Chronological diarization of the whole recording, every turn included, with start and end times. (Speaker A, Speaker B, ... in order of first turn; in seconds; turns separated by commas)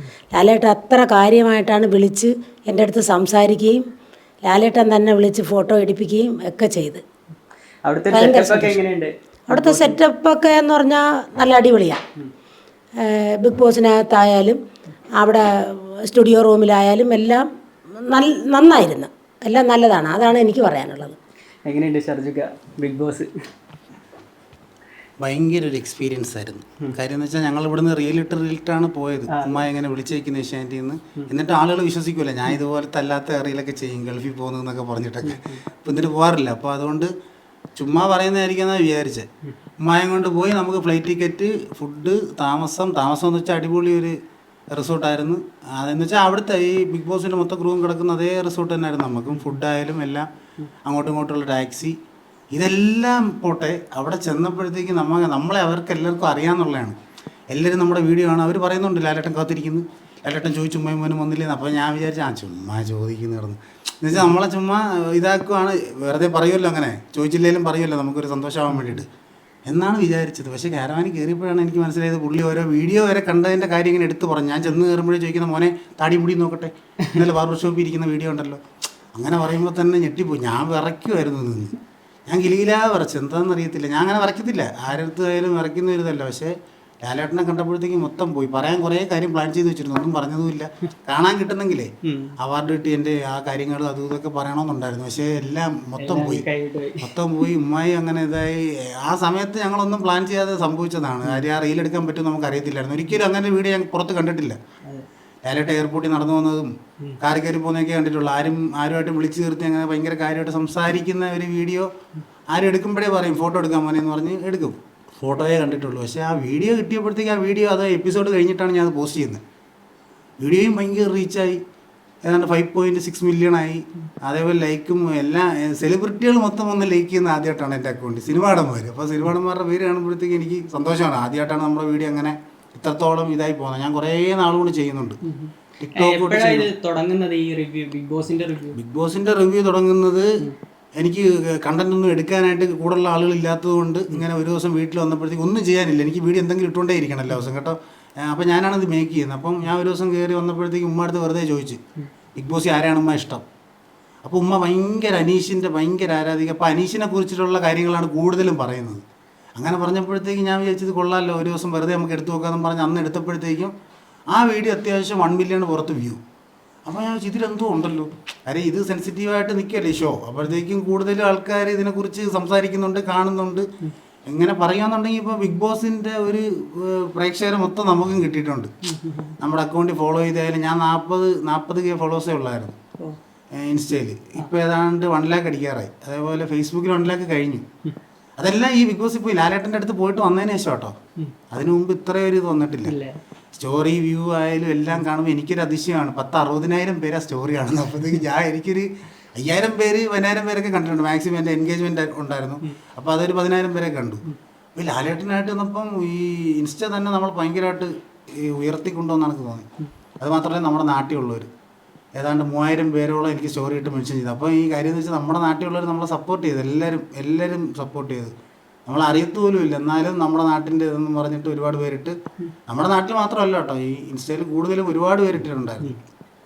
Speaker A: 0.3-3.8, Speaker A: 4.5-7.0, Speaker B: 7.9-10.0, Speaker A: 8.1-8.8, Speaker A: 9.5-12.0, Speaker A: 13.0-14.6, Speaker A: 15.2-21.2, Speaker B: 21.7-23.3, Speaker C: 25.2-37.1, Speaker B: 29.3-29.6, Speaker B: 35.2-35.6, Speaker C: 37.8-39.3, Speaker C: 39.8-44.2, Speaker C: 44.7-50.3, Speaker C: 50.8-52.0, Speaker C: 52.5-57.0, Speaker C: 57.5-69.1, Speaker C: 69.7-78.6, Speaker C: 79.2-81.8, Speaker C: 82.3-96.5, Speaker B: 92.0-92.3, Speaker B: 96.0-97.1, Speaker C: 97.0-104.6, Speaker C: 105.5-111.9, Speaker C: 112.5-119.4, Speaker C: 120.4-121.6, Speaker C: 122.2-135.2, Speaker B: 135.3-138.8, Speaker C: 135.8-136.7, Speaker C: 138.8-140.3, Speaker C: 141.0-151.8, Speaker C: 152.4-153.4, Speaker C: 154.2-159.0, Speaker C: 159.6-163.7, Speaker C: 164.3-166.2, Speaker C: 166.9-173.7, Speaker C: 174.3-178.7, Speaker B: 178.9-179.3, Speaker C: 179.4-182.8, Speaker C: 183.6-187.7, Speaker C: 188.4-190.9, Speaker C: 191.5-193.0, Speaker B: 192.9-193.2, Speaker C: 193.5-204.2, Speaker C: 204.8-209.7, Speaker C: 210.2-211.5, Speaker C: 212.2-218.3, Speaker C: 218.9-222.2, Speaker C: 222.7-225.9